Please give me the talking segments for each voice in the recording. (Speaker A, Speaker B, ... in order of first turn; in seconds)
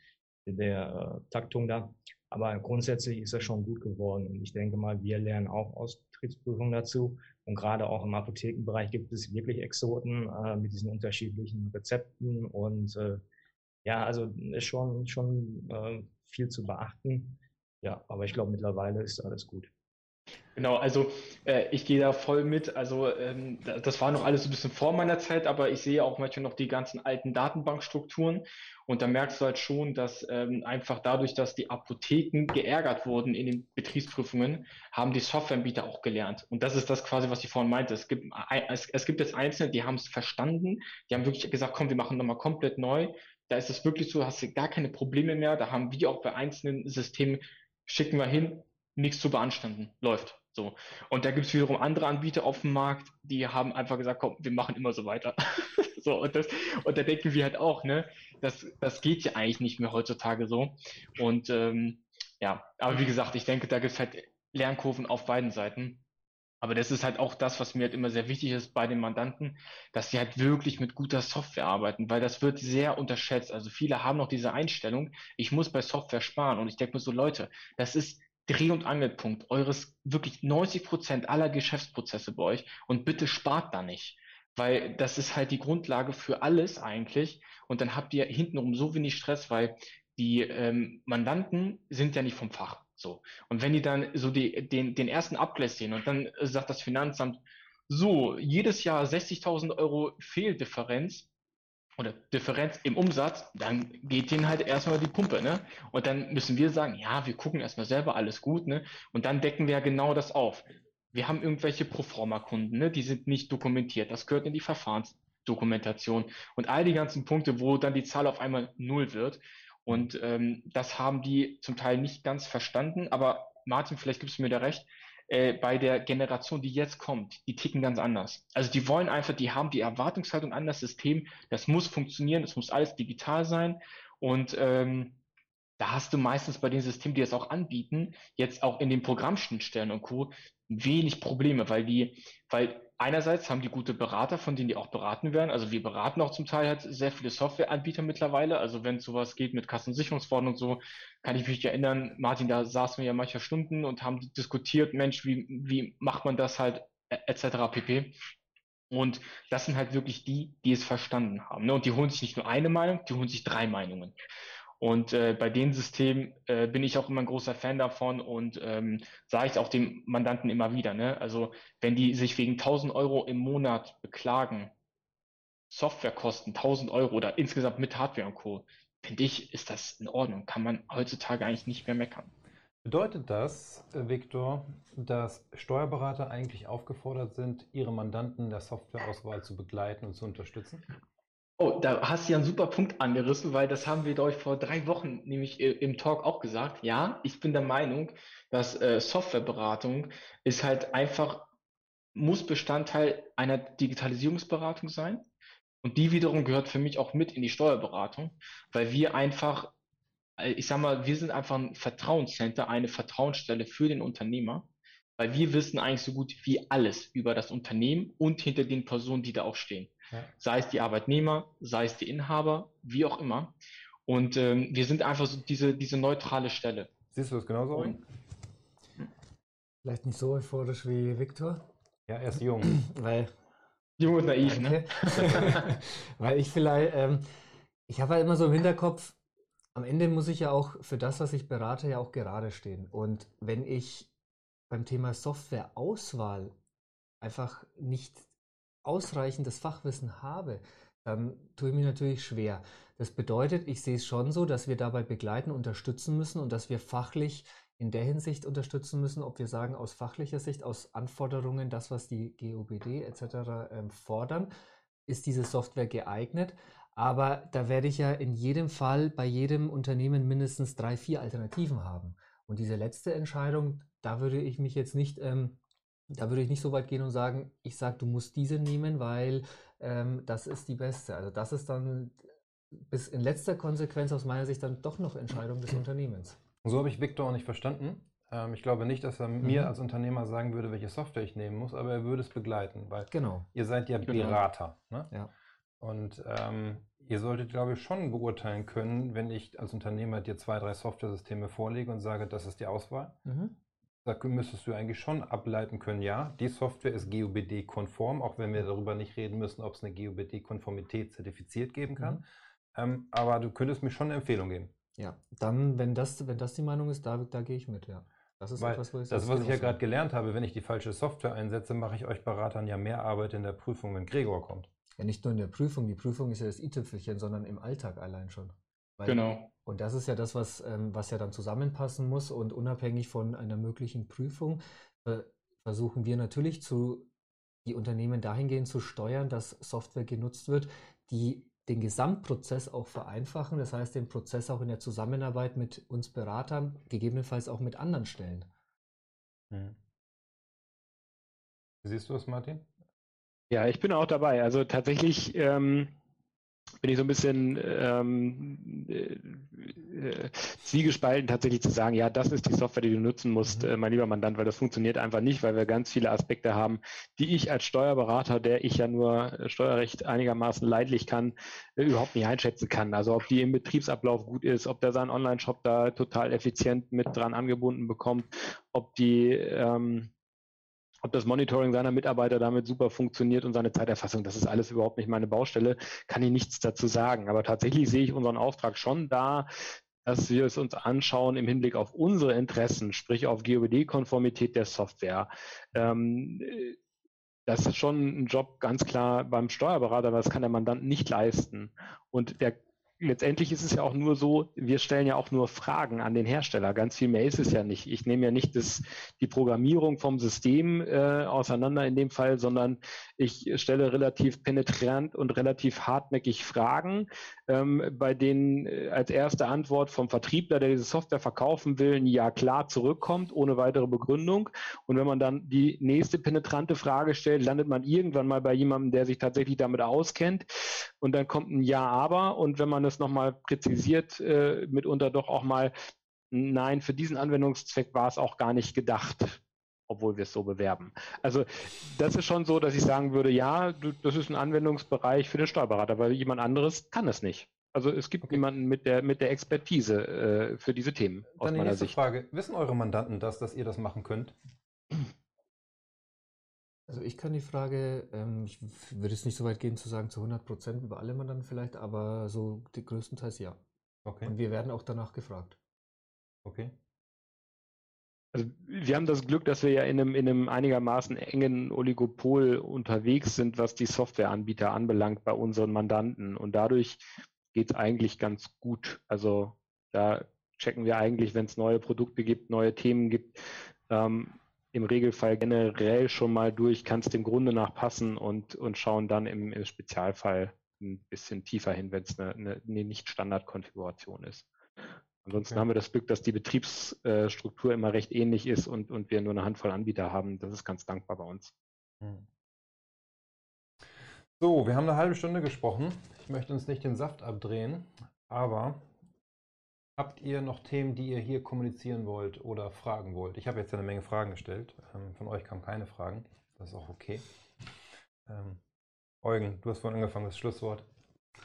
Speaker A: 0.5-13.2, 13.8-19.7
Speaker B: 20.6-66.0, 66.6-101.3, 102.0-135.2, 135.8-158.2, 158.9-164.1, 164.8-174.7, 175.7-182.3, 191.6-201.5, 202.1-205.2, 205.8-209.7, 210.4-214.6, 215.2-223.5, 224.1-226.9, 234.0-235.7, 329.0-329.5
Speaker C: 182.8-190.8, 227.1-228.0, 232.1-232.8, 286.6-295.1, 295.8-303.2, 304.0-314.7, 318.6-324.7, 349.5-349.8, 351.8-352.7, 451.4-454.4, 464.0-464.3, 466.4-466.7, 495.4-495.6, 502.0-502.3, 504.4-508.9, 510.0-517.2, 518.2-518.6, 519.2-520.9
Speaker D: 229.8-231.6, 232.6-233.3, 234.4-237.2, 237.9-239.2, 239.7-244.1, 244.7-246.5, 247.2-248.3, 248.8-264.5, 265.1-275.6, 276.1-282.2, 282.8-286.4, 289.4-289.7, 293.1-293.5, 303.2-303.5, 311.9-312.2, 315.0-319.8, 325.0-337.1, 337.6-348.5, 456.9-463.6, 464.2-465.6
Speaker E: 353.5-355.9, 356.8-380.1, 381.0-389.4, 390.0-396.8, 397.5-435.7, 436.3-451.9, 468.3-477.0, 477.5-494.5, 495.2-501.5